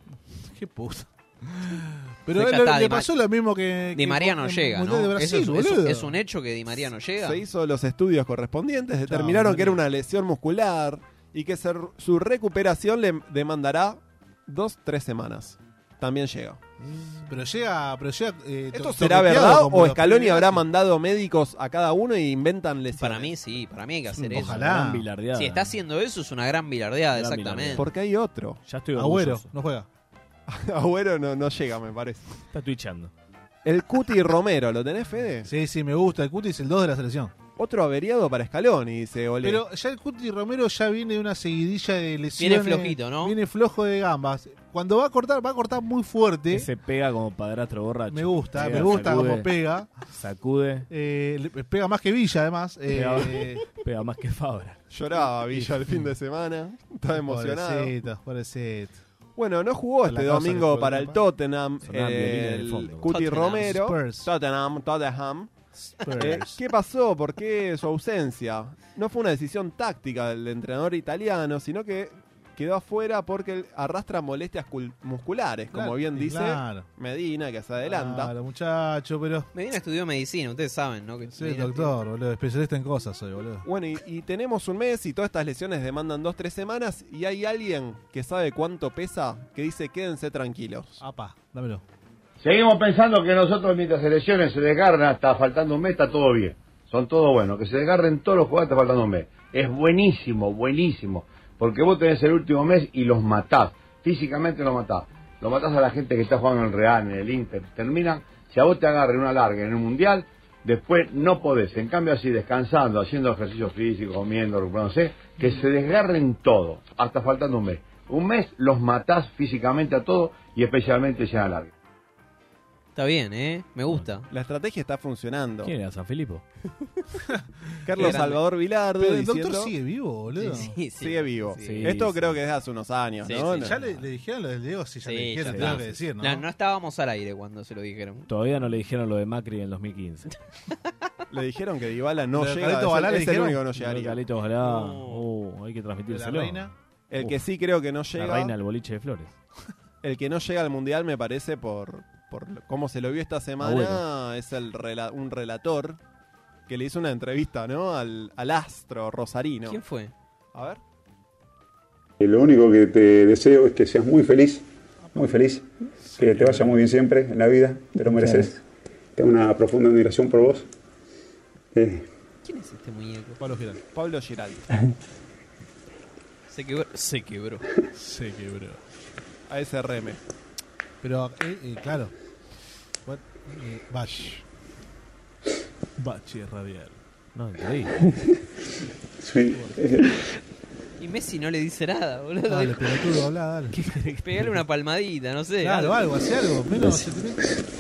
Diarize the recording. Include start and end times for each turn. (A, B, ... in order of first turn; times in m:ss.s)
0:00.4-0:06.2 A
0:02.4-0:03.1 B
0:04.0-0:07.4 B
0:07.2-0:16.6 C
0:09.1-0:09.8 A
0:16.8-0:17.2 D
0:17.3-0:20.6 A
0:18.7-0:23.4 C
0:23.0-0:24.6 B
0:24.2-0:25.1 A
0:24.3-0:25.8 D
0:25.4-0:27.8 B
0:27.2-0:27.9 D
0:27.8-0:28.6 C
0:28.7-0:29.5 D
0:29.0-0:29.9 A
0:30.5-0:32.2 C
0:32.5-0:33.1 D
0:33.6-0:35.5 C
0:35.5-0:37.3 A
0:37.6-0:39.6 C
0:39.4-0:46.7 A
0:42.4-0:43.4 B
0:46.5-0:49.5 D
0:48.1-0:49.9 A
0:50.1-0:50.9 D
0:50.9-0:53.6 A
0:52.9-0:54.8 D
0:54.9-0:57.9 C
0:55.5-0:55.8 A
0:57.2-0:59.0 A
0:59.4-1:05.5 C
1:00.0-1:01.2 A
1:01.8-1:03.1 D
1:03.1-1:03.8 B
1:03.6-1:04.3 A
1:06.0-1:06.6 A
1:06.2-1:18.3 C
1:15.7-1:16.9 A
1:17.8-1:19.5 A
1:19.5-1:21.9 B
1:21.3-1:23.7 A
1:23.6-1:31.0 C
1:31.0-1:31.8 A
1:32.4-2:01.7 E
2:03.0-2:04.3 B
2:04.3-2:05.7 C
2:05.6-2:06.4 D
2:07.9-2:09.7 C
2:08.0-2:08.4 B
2:09.0-2:10.8 A
2:10.4-2:11.9 B
2:11.0-2:13.8 C
2:11.6-2:12.4 D
2:13.2-2:13.7 B
2:13.6-2:16.4 A
2:15.0-2:18.3 B
2:15.5-2:15.8 D
2:18.3-2:20.3 D
2:21.3-2:24.2 C
2:22.3-2:23.6 A
2:23.8-2:27.4 D
2:24.6-2:25.2 B
2:26.1-2:26.7 A
2:27.1-2:28.5 C
2:28.1-2:29.3 D
2:30.0-2:36.0 C
2:33.6-2:34.0 D
2:36.7-2:39.8 C
2:39.7-2:40.1 B
2:40.5-2:40.8 C
2:42.2-2:44.6 F
2:45.2-2:48.6 F
2:46.1-2:46.7 A
2:49.2-2:50.7 F
2:51.7-2:52.1 F
2:52.4-2:53.4 B
2:53.4-2:53.8 A
2:53.9-2:54.6 C
2:56.5-2:57.6 B
2:58.0-2:58.8 A
2:59.5-3:00.2 C
3:01.0-3:02.1 A
3:03.1-3:04.4 A
3:06.0-3:07.0 A
3:07.4-3:08.0 D
3:09.2-3:10.2 F
3:09.5-3:09.8 A
3:11.0-3:12.9 B
3:12.5-3:13.8 A
3:13.7-3:14.6 D
3:14.2-3:16.0 B
3:15.6-3:17.5 A